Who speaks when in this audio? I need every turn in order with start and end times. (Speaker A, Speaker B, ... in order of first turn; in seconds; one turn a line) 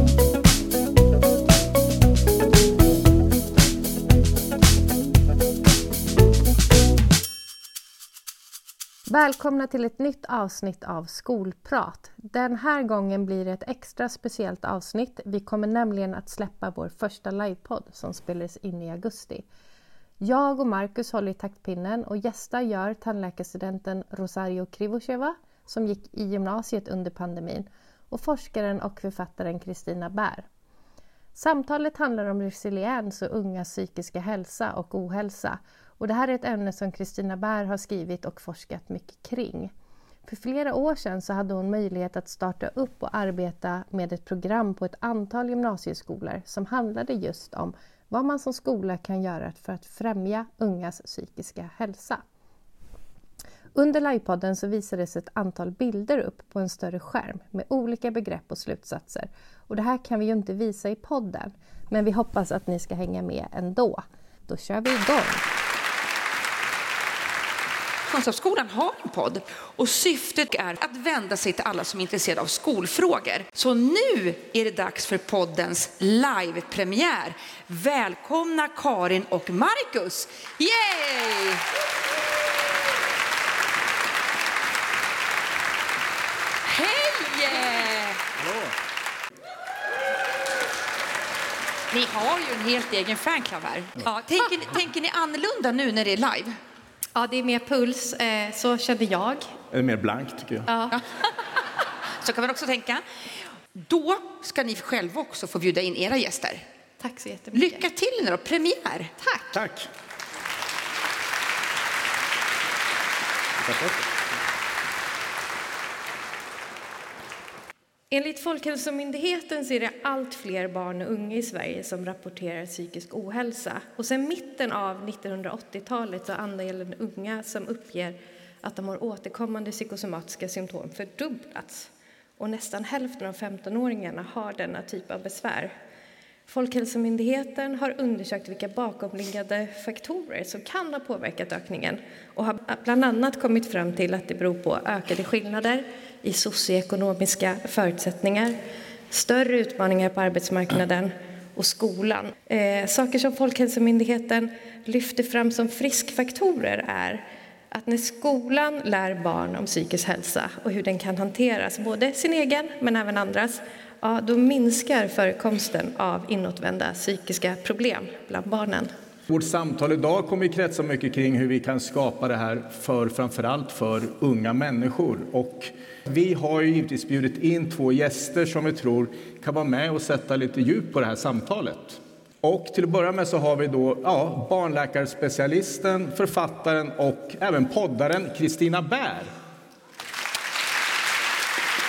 Speaker A: 9.1-19.4
Speaker A: 20.2-30.5
Speaker A: 31.3-39.7
Speaker A: 40.2-52.2
Speaker A: 53.7-65.4
Speaker B: 68.1-81.6
Speaker B: 86.6-88.2
Speaker C: 88.4-88.7
Speaker B: 91.9-96.5
Speaker A: 97.1-99.5
Speaker C: 99.7-100.7
Speaker A: 100.7-100.9
Speaker B: 102.2-103.0
Speaker B: 103.7-106.6
Speaker A: 107.0-107.8
Speaker B: 107.5-109.1
Speaker A: 109.2-109.5
Speaker C: 109.5-109.9
Speaker C: 113.6-114.1
Speaker A: 118.1-135.7
Speaker A: 136.5-148.6
Speaker A: 149.1-168.9
Speaker C: 169.3-189.3